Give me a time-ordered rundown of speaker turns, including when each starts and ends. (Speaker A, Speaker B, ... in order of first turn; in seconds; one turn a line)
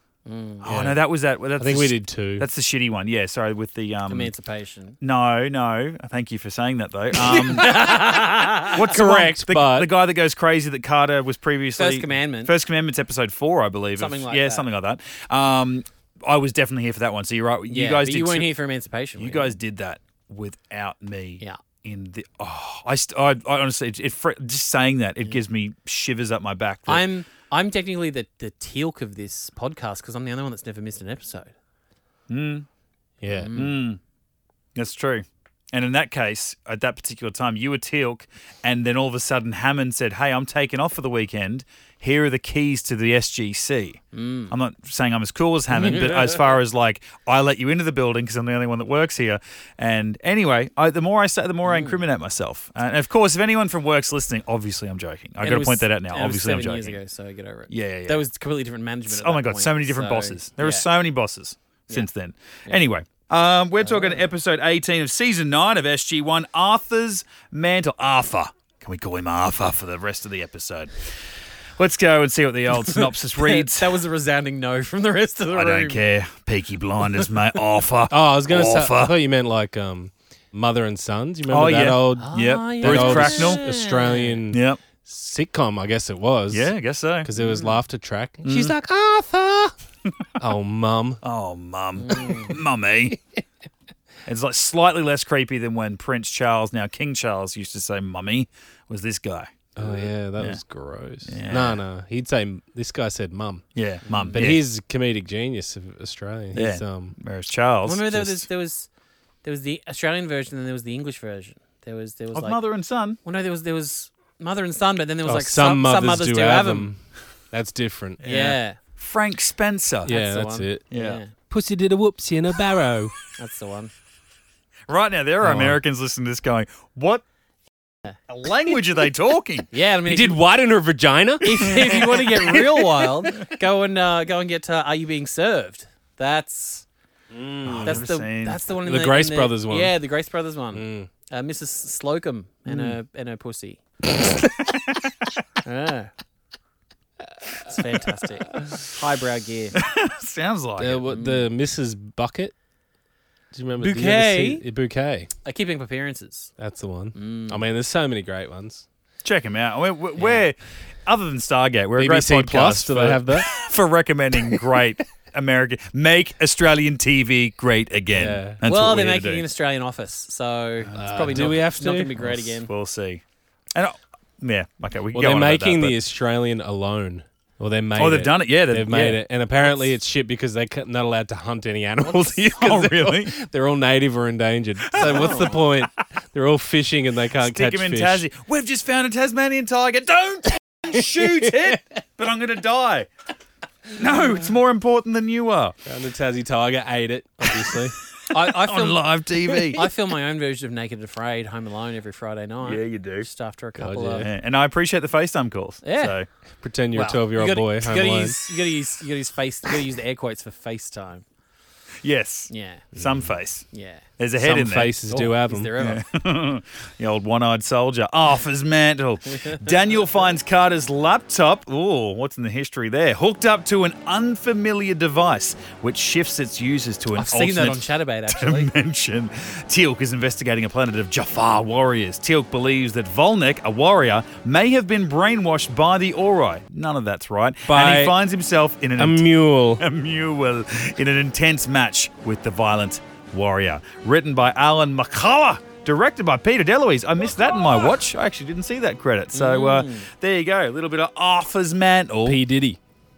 Speaker A: 0.2-0.7
Speaker B: 0.6-4.3
Speaker C: 0.7-1.0
Speaker C: 1.6-2.5
Speaker A: 4.1-5.0
Speaker B: 5.0-7.7
Speaker C: 7.2-9.9
Speaker A: 7.3-8.9
Speaker B: 8.7-18.5
Speaker A: 11.8-12.5
Speaker A: 14.0-14.7
Speaker A: 17.7-19.6
Speaker B: 19.2-27.1
Speaker A: 26.9-31.5
Speaker B: 32.3-32.7
Speaker C: 33.2-33.5
Speaker A: 33.2-33.7
Speaker B: 33.5-34.0
Speaker B: 34.7-57.0
Speaker A: 44.1-44.5
Speaker A: 45.8-46.5
Speaker A: 51.6-52.0
Speaker A: 55.4-60.9
Speaker B: 57.7-58.2
Speaker B: 59.1-70.9
Speaker A: 63.8-64.2
Speaker B: 71.8-74.0
Speaker A: 72.8-76.0
Speaker B: 75.5-79.1
Speaker C: 78.1-89.7
Speaker B: 81.5-83.6
Speaker A: 82.2-84.4
Speaker B: 84.5-84.8
Speaker B: 86.5-87.3
Speaker A: 87.3-87.8
Speaker B: 88.4-88.7
Speaker C: 90.4-91.2
Speaker B: 91.2-93.2
Speaker A: 92.0-92.5
Speaker B: 94.2-100.6
Speaker C: 99.8-103.7
Speaker B: 101.2-101.8
Speaker B: 103.7-104.6
Speaker A: 104.0-104.5
Speaker C: 104.3-107.2
Speaker B: 106.5-108.2
Speaker A: 107.8-108.9
Speaker C: 108.1-108.5
Speaker A: 109.4-112.6
Speaker B: 112.3-113.2
Speaker A: 113.2-116.9
Speaker C: 115.2-118.2
Speaker B: 118.2-120.1
Speaker A: 118.2-118.8
Speaker C: 120.0-120.8
Speaker A: 120.1-121.3
Speaker B: 120.9-121.2
Speaker C: 121.5-123.1
Speaker A: 123.3-123.9
Speaker B: 124.9-127.2
Speaker C: 125.4-125.8
Speaker B: 128.3-129.7
Speaker A: 129.7-130.4
Speaker C: 130.0-133.1
Speaker A: 131.4-136.8
Speaker C: 137.3-138.1
Speaker B: 137.7-138.6
Speaker A: 137.8-143.8
Speaker C: 138.8-140.0
Speaker C: 140.7-141.1
Speaker B: 142.7-142.9
Speaker A: 145.6-146.1
Speaker A: 147.7-149.8
Speaker B: 149.8-151.0
Speaker C: 150.8-152.5
Speaker A: 151.1-151.5
Speaker C: 153.5-155.3
Speaker A: 153.8-154.7
Speaker A: 155.4-156.5
Speaker C: 156.6-158.8
Speaker A: 157.2-157.6
Speaker B: 159.2-169.4
Speaker A: 160.2-160.5
Speaker C: 161.9-163.6
Speaker C: 168.1-168.6
Speaker A: 168.7-172.7
Speaker B: 170.8-171.5
Speaker C: 170.9-172.6
Speaker B: 172.7-173.2
Speaker B: 173.7-176.0
Speaker C: 175.1-188.2
Speaker B: 178.0-179.2
Speaker B: 182.4-183.3
Speaker A: 185.0-185.6
Speaker B: 187.4-193.1
Speaker C: 190.9-191.8
Speaker B: 194.0-195.7
Speaker C: 195.8-198.0
Speaker B: 198.3-199.8
Speaker A: 198.3-204.3
Speaker B: 202.6-203.3
Speaker C: 203.8-204.3
Speaker B: 204.2-206.2
Speaker A: 205.8-206.2
Speaker C: 206.6-208.4
Speaker A: 206.9-211.2
Speaker B: 212.0-213.7
Speaker A: 212.5-212.9
Speaker C: 212.9-213.3
Speaker A: 213.7-214.0
Speaker B: 214.2-214.9
Speaker C: 214.4-215.7
Speaker A: 215.1-216.1
Speaker B: 215.8-252.4
Speaker A: 227.1-228.7
Speaker C: 237.7-238.2
Speaker C: 239.0-239.8
Speaker A: 249.3-250.1
Speaker C: 252.2-252.8